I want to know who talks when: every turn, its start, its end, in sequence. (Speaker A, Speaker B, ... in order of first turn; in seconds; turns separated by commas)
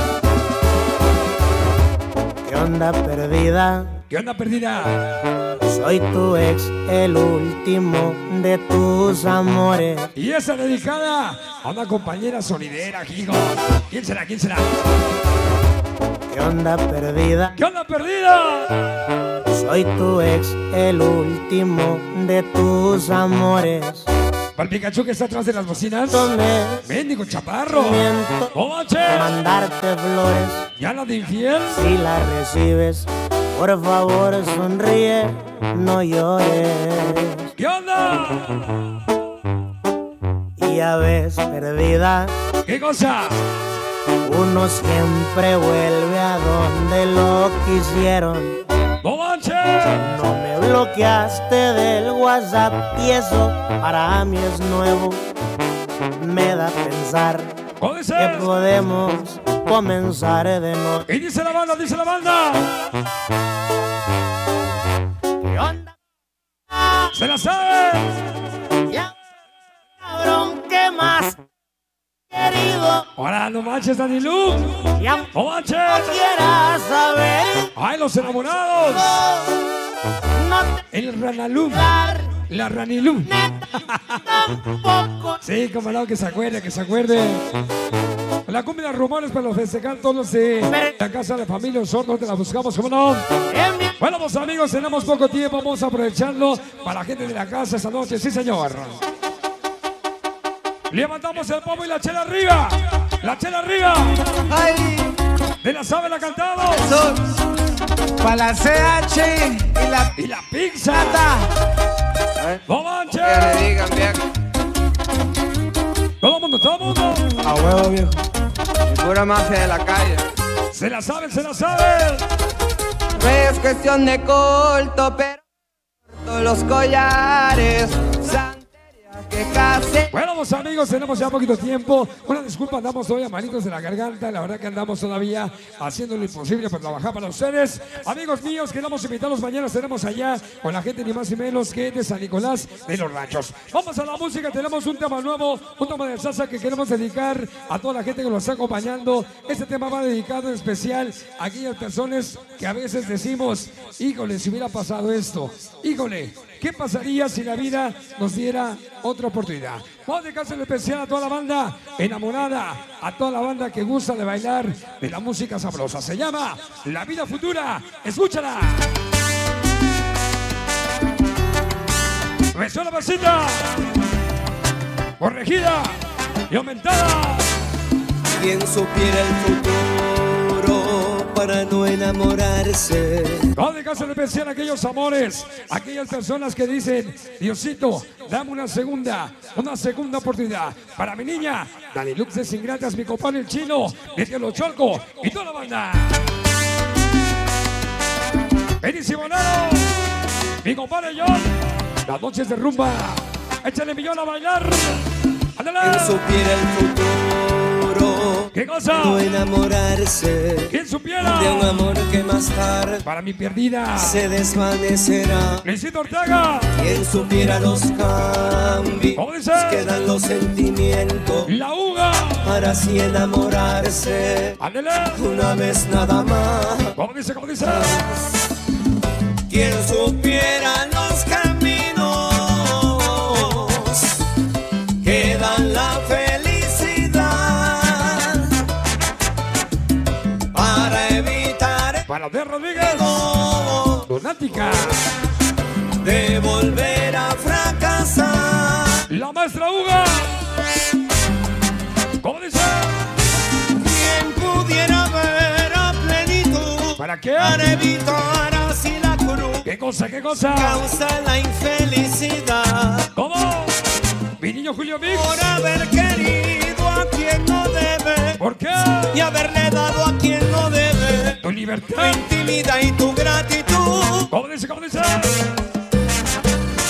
Speaker A: 2.5-3.9, Speaker B: 4.1-5.0, Speaker A: 5.7-10.1, Speaker B: 10.2-14.7, Speaker A: 16.3-17.5, Speaker B: 17.6-18.7, Speaker A: 19.5-24.1, Speaker B: 24.6-29.3, Speaker A: 26.1-26.8, Speaker A: 27.7-28.5, Speaker A: 29.1-30.6, Speaker B: 30.8-31.9, Speaker A: 31.7-37.4, Speaker B: 37.6-38.6, Speaker A: 40.6-42.3, Speaker B: 42.7-43.4, Speaker A: 44.2-48.6, Speaker B: 49.0-50.0, Speaker A: 49.9-55.2, Speaker A: 56.2-57.5, Speaker B: 57.8-58.5, Speaker A: 58.2-61.0, Speaker B: 61.1-62.7, Speaker A: 65.4-65.9, Speaker B: 67.1-68.1, Speaker A: 70.0-71.4, Speaker A: 72.3-73.0, Speaker B: 73.2-76.2, Speaker A: 75.0-75.3, Speaker A: 75.9-77.7, Speaker B: 77.8-79.2, Speaker A: 79.0-79.7, Speaker A: 80.3-80.8, Speaker B: 80.9-83.3, Speaker A: 81.7-82.3, Speaker A: 83.3-83.7, Speaker B: 83.9-84.1, Speaker A: 84.2-85.4, Speaker B: 85.4-87.5, Speaker B: 88.5-93.3, Speaker A: 93.5-93.9, Speaker B: 94.0-99.0, Speaker B: 100.9-104.2, Speaker C: 104.5-105.0, Speaker B: 105.6-106.9, Speaker C: 106.8-107.2, Speaker C: 108.2-110.1, Speaker B: 110.2-111.3, Speaker C: 110.9-111.4, Speaker B: 112.7-113.7, Speaker C: 113.1-114.2, Speaker B: 116.2-117.2, Speaker C: 117.4-118.2, Speaker C: 118.9-120.3, Speaker B: 120.7-122.2, Speaker C: 123.2-125.4, Speaker C: 126.1-130.1, Speaker B: 130.1-168.9, Speaker B: 172.5-173.8, Speaker B: 175.2-176.0, Speaker B: 176.5-177.5, Speaker D: 178.4-183.5, Speaker B: 183.6-196.2, Speaker B: 198.8-200.0, Speaker B: 200.6-205.0, Speaker B: 205.6-206.2, Speaker D: 205.8-210.7, Speaker B: 208.5-209.2, Speaker B: 210.7-211.8, Speaker D: 211.2-213.0, Speaker B: 213.0-214.2, Speaker D: 214.0-215.6, Speaker B: 215.6-216.7, Speaker D: 216.8-221.5, Speaker B: 219.2-219.9, Speaker B: 221.4-222.5, Speaker D: 222.4-224.6, Speaker B: 224.6-225.2, Speaker D: 225.1-226.9, Speaker B: 226.9-228.0, Speaker D: 229.5-234.1, Speaker D: 235.0-238.5, Speaker D: 240.5-242.0, Speaker B: 242.1-243.2, Speaker D: 242.8-244.1, Speaker B: 244.1-244.9, Speaker D: 246.0-249.0, Speaker B: 249.1-250.4, Speaker B: 252.2-253.0, Speaker D: 253.8-259.7, Speaker B: 257.0-257.6, Speaker B: 259.6-260.8, Speaker D: 260.5-263.1, Speaker B: 263.1-263.8, Speaker B: 264.4-265.5, Speaker D: 265.1-268.4, Speaker B: 268.4-269.2, Speaker D: 269.1-271.4, Speaker B: 271.4-272.2, Speaker D: 271.9-274.3, Speaker B: 274.3-275.4